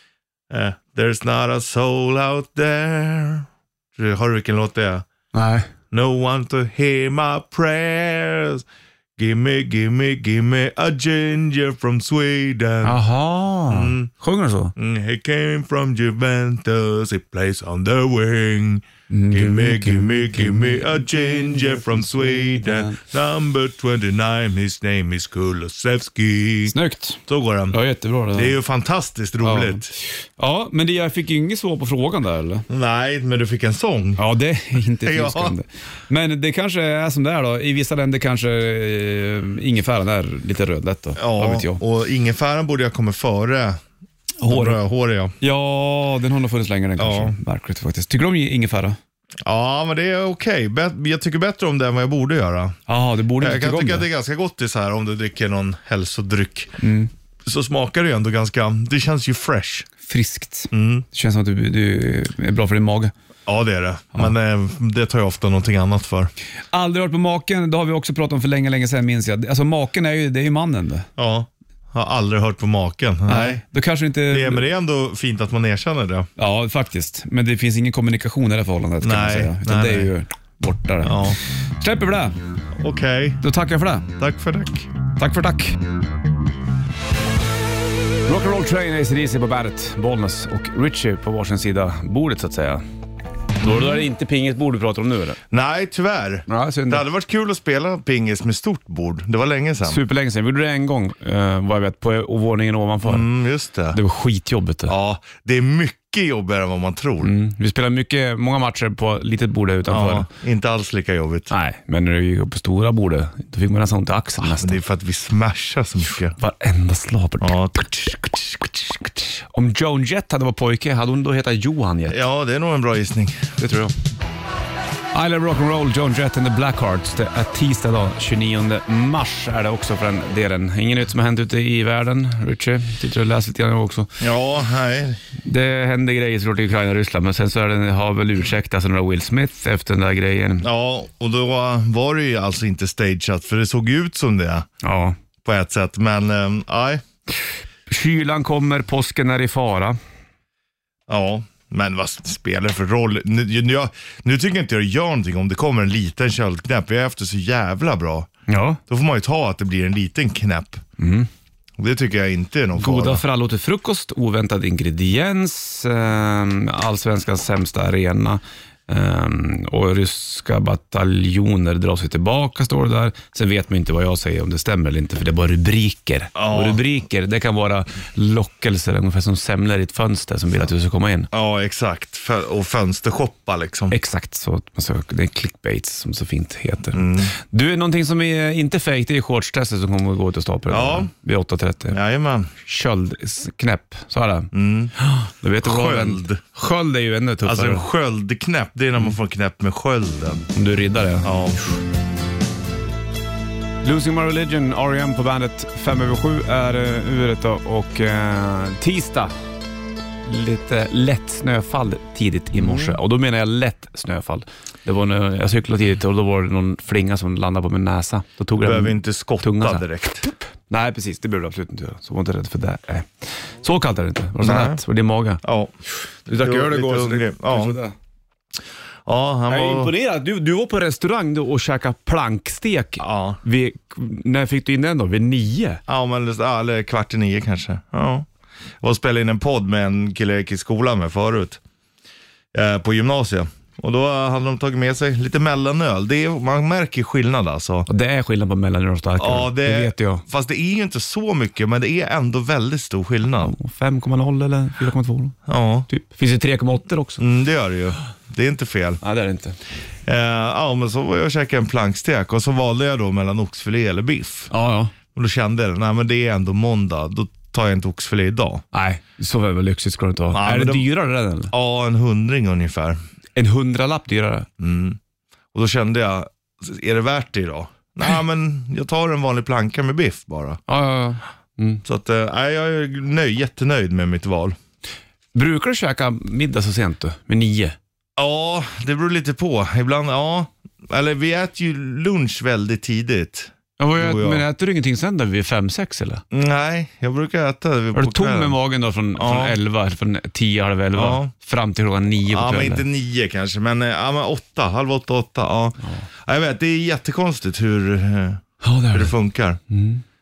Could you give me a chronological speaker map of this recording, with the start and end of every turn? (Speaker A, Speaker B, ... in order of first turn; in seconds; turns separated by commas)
Speaker A: 0.5-5.0, Speaker B: 5.3-5.7, Speaker A: 5.9-8.6, Speaker A: 9.2-13.0, Speaker B: 12.8-14.7, Speaker A: 13.7-14.1, Speaker A: 14.8-26.7, Speaker B: 19.1-23.0, Speaker B: 26.7-28.5, Speaker A: 27.2-27.8, Speaker A: 28.3-29.9, Speaker B: 29.4-32.6, Speaker A: 32.7-34.2, Speaker B: 34.2-41.8, Speaker A: 35.0-35.5, Speaker A: 41.2-43.8, Speaker B: 44.4-44.8, Speaker A: 44.5-45.4, Speaker B: 45.4-49.0, Speaker A: 47.0-47.3, Speaker A: 49.5-52.8, Speaker B: 52.9-54.1, Speaker A: 53.4-56.8, Speaker B: 56.8-57.1, Speaker A: 57.5-59.9, Speaker B: 60.0-63.1, Speaker A: 60.7-61.0, Speaker A: 63.5-66.3, Speaker B: 66.7-71.1, Speaker A: 71.2-73.6, Speaker B: 73.3-74.6, Speaker A: 74.3-76.3, Speaker B: 76.4-82.3, Speaker A: 79.0-80.1, Speaker A: 81.0-81.4, Speaker A: 82.8-83.4, Speaker B: 83.4-84.1, Speaker A: 84.2-84.9, Speaker B: 85.2-85.8, Speaker B: 88.3-92.8, Speaker B: 93.6-95.4, Speaker A: 95.5-100.0, Speaker B: 96.5-97.0, Speaker B: 99.8-103.3, Speaker A: 103.0-104.0, Speaker B: 103.9-104.9, Speaker A: 104.9-107.3, Speaker B: 107.2-110.3, Speaker A: 109.9-111.5, Speaker B: 111.5-114.8, Speaker A: 114.4-116.3, Speaker B: 116.4-117.9, Speaker A: 117.4-118.7, Speaker B: 119.5-122.2, Speaker A: 122.1-123.5, Speaker B: 123.6-123.9, Speaker B: 125.1-134.2, Speaker A: 134.2-135.2, Speaker B: 135.4-140.7, Speaker A: 140.6-144.7, Speaker B: 144.8-145.2, Speaker A: 145.4-147.0, Speaker B: 147.9-150.0, Speaker A: 151.1-158.3, Speaker B: 158.5-158.8, Speaker A: 158.9-160.8, Speaker B: 161.0-161.3, Speaker A: 161.8-163.2, Speaker B: 162.8-181.3, Speaker A: 176.3-176.8, Speaker A: 181.3-183.9, Speaker B: 183.9-191.9, Speaker A: 186.9-187.3, Speaker A: 190.7-191.1, Speaker A: 191.9-192.5, Speaker B: 192.6-197.8, Speaker A: 194.5-194.9, Speaker A: 195.6-196.4, Speaker A: 197.4-200.4, Speaker B: 200.5-201.3, Speaker A: 201.2-201.6, Speaker B: 203.8-209.3, Speaker B: 210.2-225.4, Speaker A: 212.6-213.0, Speaker A: 218.6-220.3, Speaker A: 224.4-224.8, Speaker A: 225.4-225.7, Speaker B: 226.3-227.9, Speaker A: 226.3-227.8, Speaker A: 229.1-229.9, Speaker B: 229.5-235.8, Speaker A: 233.0-233.4, Speaker A: 235.9-238.3, Speaker A: 238.8-241.6, Speaker A: 242.5-247.9, Speaker B: 247.9-250.2, Speaker A: 249.2-253.5, Speaker B: 253.4-255.4, Speaker A: 255.5-255.9, Speaker B: 255.9-257.2, Speaker A: 257.2-259.0, Speaker B: 259.0-259.6, Speaker A: 260.1-264.5, Speaker B: 264.5-264.9, Speaker A: 265.1-268.6, Speaker B: 268.7-271.5, Speaker A: 270.3-270.9, Speaker A: 271.5-273.0, Speaker B: 273.4-274.5, Speaker A: 274.6-275.0, Speaker A: 275.5-280.6, Speaker B: 280.7-281.8, Speaker A: 281.8-284.6, Speaker B: 285.3-287.8, Speaker A: 288.2-294.4, Speaker B: 293.8-296.2, Speaker A: 296.3-298.6, Speaker B: 297.9-302.8, Speaker A: 299.1-299.5, Speaker A: 300.9-301.3, Speaker A: 302.3-309.6, Speaker B: 308.6-309.1, Speaker B: 309.7-310.0